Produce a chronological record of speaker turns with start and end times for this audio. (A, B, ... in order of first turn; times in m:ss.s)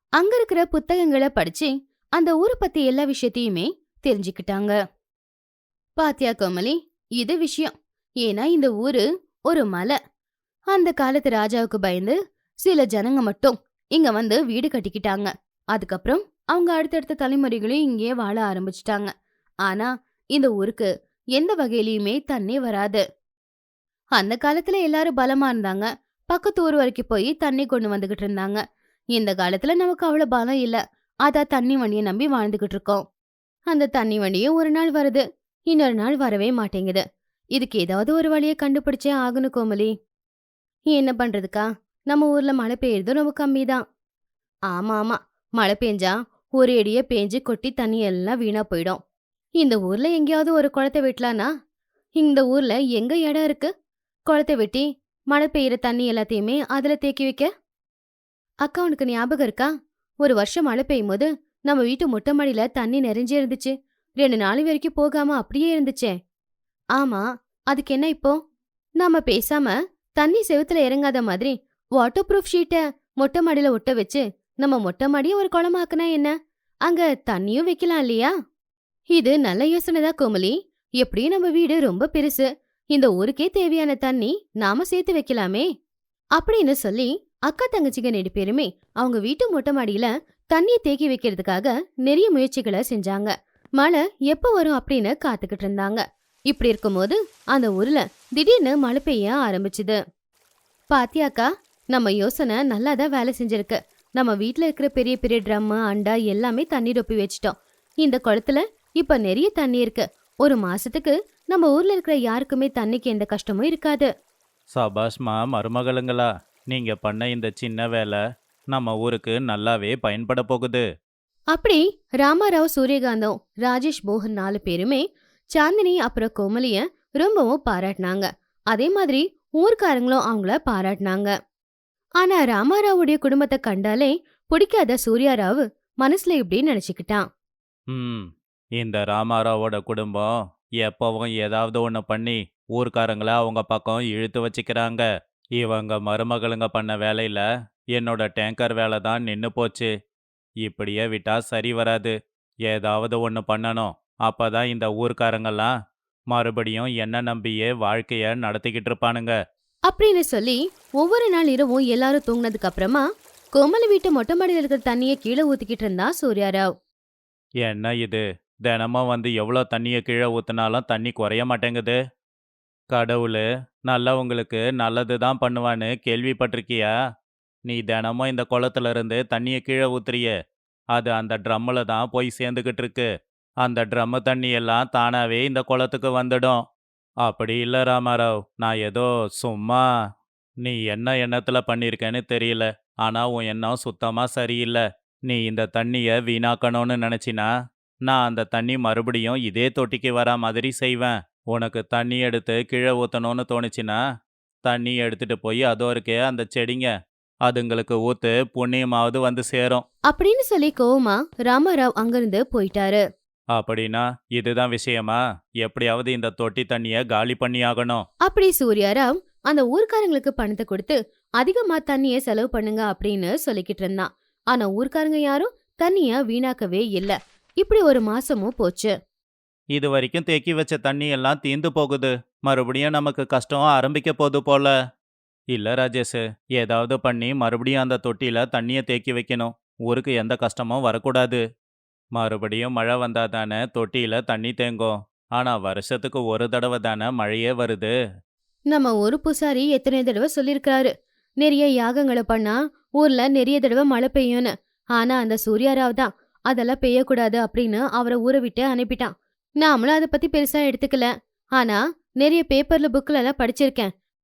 0:00.2-0:04.8 A
0:06.0-0:10.0 A
0:10.7-0:19.1 A
0:19.6-0:23.0 A
0:24.2-0:28.6 A
0:29.1-0:33.0 A
0:33.7-0:37.0 A
0:37.6-0:39.9 A
0:40.9-0:43.8 A
0:44.7-0:49.0 A
0:49.6-0:51.5 A
0:52.2-0:53.7 A
0:54.3-0:57.5 A
0:58.6-0:59.7 A
1:00.2-1:06.2 A
1:07.0-1:08.4 A
1:09.0-1:16.3 A
1:16.9-1:18.3 A
1:19.1-1:25.7 A
1:26.4-1:40.0 A
1:40.9-1:54.1 A
1:54.7-2:00.8 B
2:01.5-2:05.0 A
2:05.5-2:11.3 A
2:12.2-2:17.2 A
2:17.9-2:25.0 B
2:25.6-2:29.9 B
2:30.6-2:32.1 B
2:32.7-2:35.7 B
2:36.3-2:39.4 B
2:39.9-2:43.0 A
2:43.5-2:46.7 A
2:47.6-2:52.0 B
2:52.9-2:56.9 B
2:57.7-3:00.3 B
3:00.9-3:03.1 B
3:03.6-3:06.6 B
3:07.2-3:09.8 B
3:10.6-3:17.5 B
3:18.1-3:24.0 B
3:24.6-3:26.9 B
3:27.5-3:29.8 B
3:30.1-3:33.0 A
3:33.5-3:38.1 B
3:38.2-3:48.9 A
3:49.8-3:54.7 B
3:55.5-4:01.4 B
4:02.2-4:07.9 B
4:08.7-4:23.9 A